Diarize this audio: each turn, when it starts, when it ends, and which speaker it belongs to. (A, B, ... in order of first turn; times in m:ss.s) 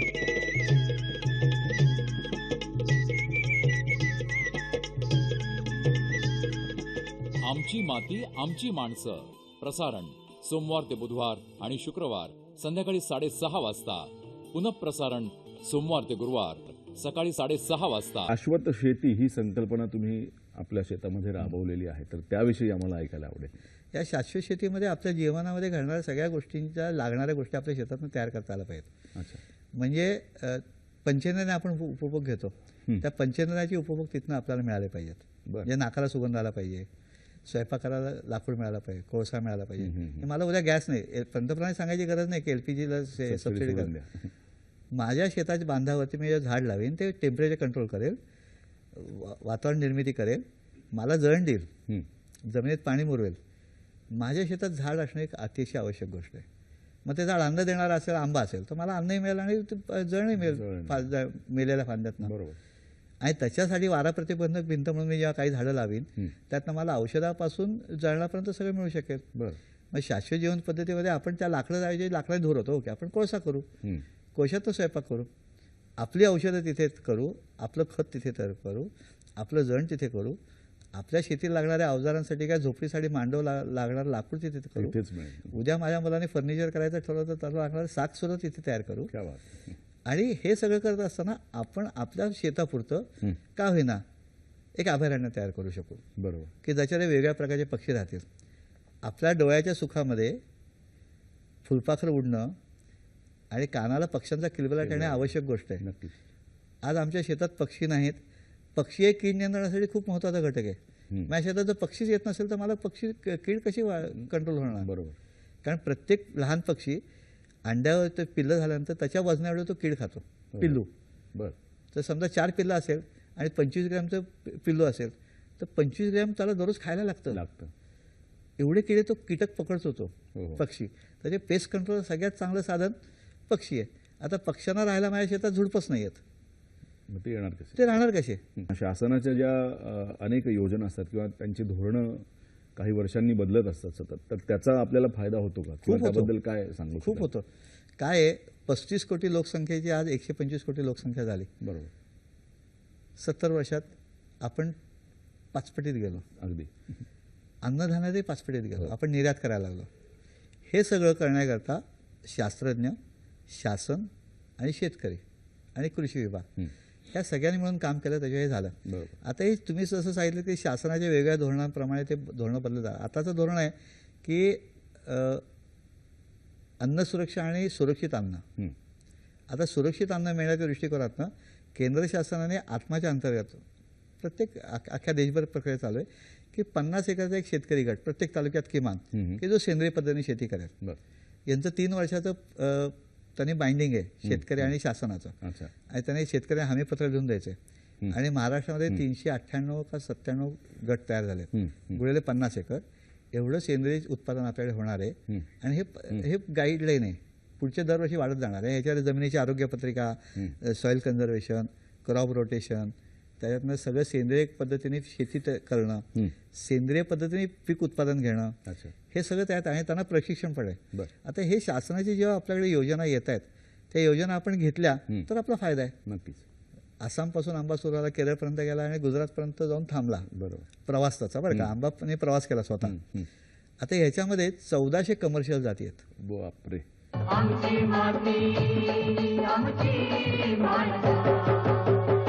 0:07.4-0:18.3 A
0:18.3-0:23.5 B
0:23.9-0:28.9 C
0:29.1-0:29.4 B
0:29.7-0:36.9 C
0:37.4-0:43.9 C
0:39.8-0:40.2 B
0:43.2-0:44.1 B
0:44.9-0:48.2 C
0:48.9-0:51.7 C
0:52.5-0:53.4 C
0:54.1-0:56.4 C
0:57.0-1:02.3 C
1:00.4-1:01.1 B
1:02.2-1:02.6 B
1:03.2-1:09.2 C
1:09.9-1:13.7 C
1:14.3-1:15.3 C
1:16.0-1:20.4 C
1:20.9-1:25.0 C
1:24.8-1:25.6 B
1:25.5-1:29.1 C
1:29.1-1:29.7 B
1:30.0-1:34.0 C
1:34.8-1:36.0 C
1:36.2-1:36.5 B
1:36.6-1:38.2 C
1:39.0-1:40.4 C
1:41.6-1:42.6 C
1:43.5-1:45.8 C
1:44.8-1:46.1 B
1:46.8-1:48.2 C
1:48.7-1:54.9 C
1:54.7-1:55.2 B
1:55.6-1:57.0 C
1:57.6-2:00.9 C
2:01.9-2:07.4 C
2:07.3-2:07.7 B
2:08.6-2:13.0 C
2:10.3-2:10.6 B
2:13.5-2:16.2 C
2:17.1-2:17.8 B
2:17.7-2:18.4 C
2:18.6-2:27.3 B
2:25.8-2:26.3 C
2:27.0-2:27.5 C
2:28.0-2:31.5 C
2:31.6-2:31.9 B
2:33.2-2:33.9 C
2:34.4-2:34.8 C
2:35.5-2:36.2 C
2:36.4-2:36.7 B
2:37.6-2:39.9 C
2:40.7-2:43.0 C
2:43.5-2:45.2 C
2:45.7-2:46.5 C
2:47.1-2:55.4 C
2:48.8-2:49.1 B
2:56.8-2:58.4 C
2:59.5-3:03.6 C
3:04.2-3:10.7 C
3:09.1-3:09.4 B
3:11.5-3:15.4 C
3:14.2-3:14.7 B
3:15.4-3:15.7 B
3:15.9-3:17.6 C
3:18.1-3:22.8 C
3:21.5-3:21.9 B
3:23.3-3:38.6 C
3:38.6-3:38.9 B
3:39.1-3:45.9 C
3:46.0-3:46.4 B
3:47.0-3:50.3 C
3:50.3-3:50.7 B
3:50.8-3:53.0 C
3:52.8-3:53.3 B
3:53.8-3:56.0 C
3:56.2-3:56.8 B
3:57.2-4:01.6 A